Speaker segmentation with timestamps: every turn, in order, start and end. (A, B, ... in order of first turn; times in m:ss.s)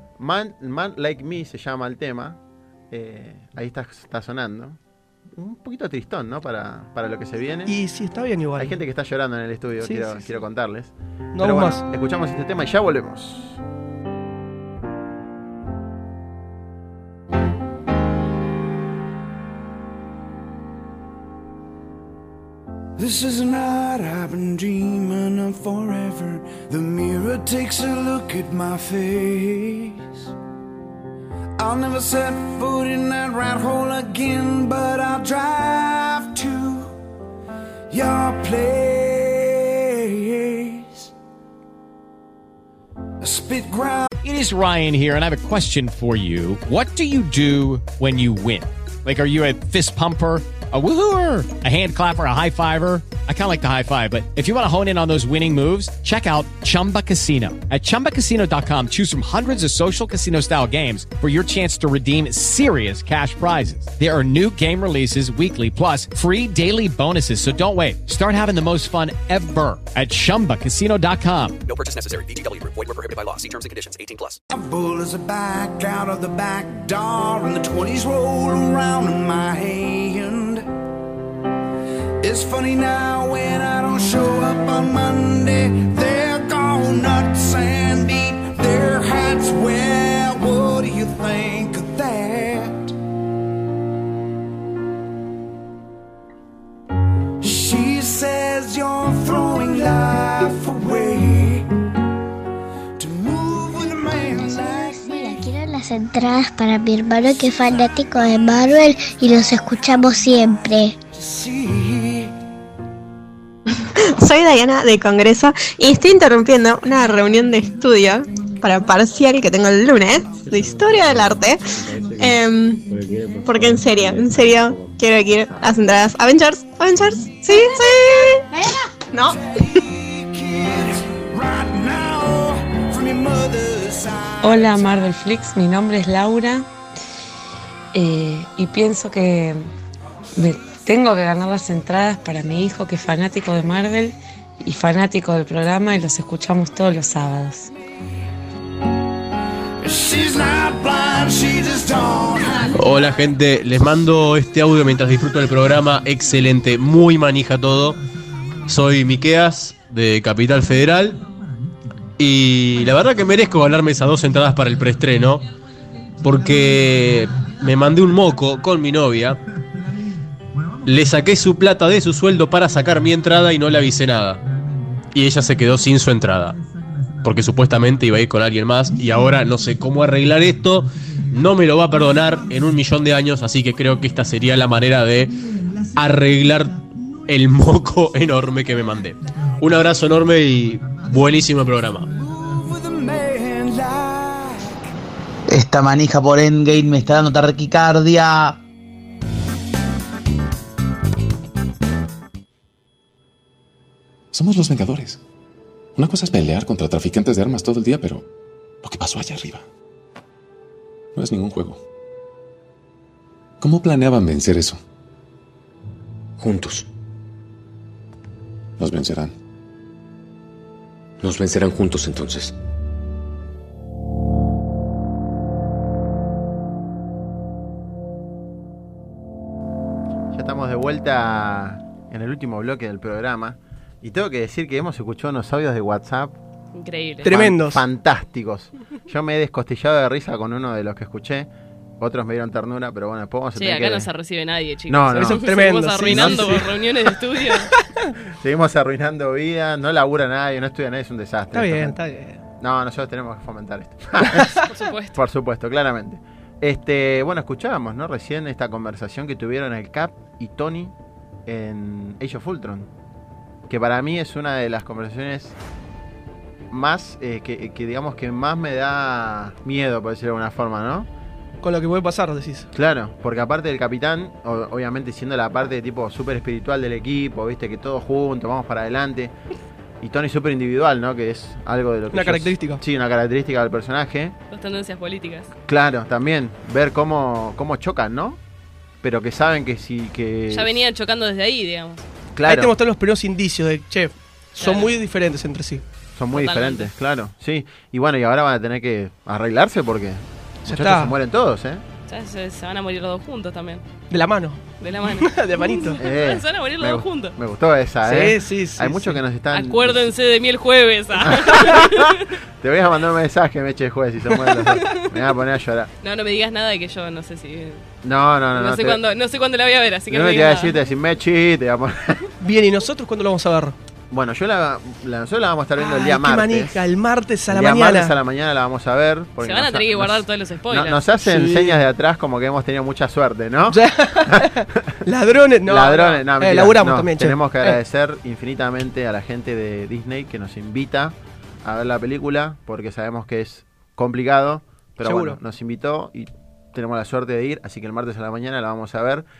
0:00.2-0:02.4 A
0:02.9-0:04.8 A
0:05.3-0:07.8 A
0:07.7-0:08.8 B
0:08.6-0:13.6 A
0:09.8-0:10.3 B
0:11.3-0:11.8 B
0:23.0-0:30.3 C
0:31.6-0:37.0 C
0:37.9-0:41.1 C
0:43.2-0:44.1 C
0:44.2-1:11.6 D
1:11.6-1:14.4 E
1:14.5-1:20.7 C
1:22.2-1:32.9 C
1:37.4-1:41.7 C
1:43.0-1:45.4 C
1:44.3-1:50.9 F
1:51.1-1:52.3 C
1:54.2-2:02.8 G
2:03.4-2:08.4 G
2:09.3-2:14.8 C
2:14.4-2:16.6 H
2:17.9-2:19.7 H
2:20.4-2:27.7 H
2:29.8-2:32.7 C
2:32.7-2:38.0 I
2:38.6-2:41.2 I
2:42.2-2:45.4 I
2:46.2-2:49.4 I
2:50.8-2:54.4 I
2:55.1-2:56.6 I
2:57.2-3:05.4 I
3:05.9-3:12.1 I
3:12.1-3:14.9 C
3:15.5-3:18.6 J
3:24.3-3:25.2 K
3:26.0-3:28.2 K
3:28.8-3:29.6 K
3:31.1-3:31.8 K
3:33.6-3:34.8 K
3:36.4-3:36.8 K
3:38.8-3:39.3 K
3:41.2-3:42.5 K
3:50.3-3:56.3 A
3:56.7-3:57.4 L
3:57.2-3:57.8 B
3:57.2-4:01.5 A
4:02.0-4:04.1 A
4:03.5-4:07.7 L
4:04.9-4:05.4 A
4:05.1-4:08.1 B
4:06.0-4:06.6 A
4:08.4-4:12.0 A
4:11.5-4:12.4 B
4:12.6-4:14.6 A
4:14.2-4:14.7 B
4:14.7-4:15.2 L
4:15.1-4:20.9 A
4:21.4-4:22.9 A
4:23.7-4:25.6 A
4:26.7-4:31.1 A
4:31.6-4:32.7 B
4:32.7-4:39.3 A
4:40.0-4:44.3 A
4:42.1-4:42.8 B
4:44.5-4:45.5 L
4:45.7-4:48.4 A
4:49.0-4:50.8 A
4:50.5-4:52.0 L
4:52.3-4:52.7 A
4:52.5-4:55.8 B
4:54.6-4:54.9 L
4:56.2-5:01.8 A
4:56.3-4:56.9 L
5:00.6-5:01.1 B
5:02.1-5:03.8 L
5:04.1-5:06.0 B
5:04.8-5:07.4 L
5:06.0-5:10.1 A
5:08.0-5:09.2 B
5:09.5-5:12.3 L
5:11.2-5:12.0 A
5:12.6-5:15.9 A
5:14.6-5:15.3 L
5:16.0-5:17.8 L
5:18.0-5:19.0 A
5:18.5-5:20.8 L
5:20.1-5:22.2 A
5:22.4-5:23.7 B
5:24.1-5:26.8 A
5:25.8-5:28.1 B
5:27.5-5:34.4 A
5:29.4-5:31.0 L
5:31.2-5:31.8 B
5:33.7-5:37.8 B
5:35.6-5:49.2 A
5:45.0-5:45.4 B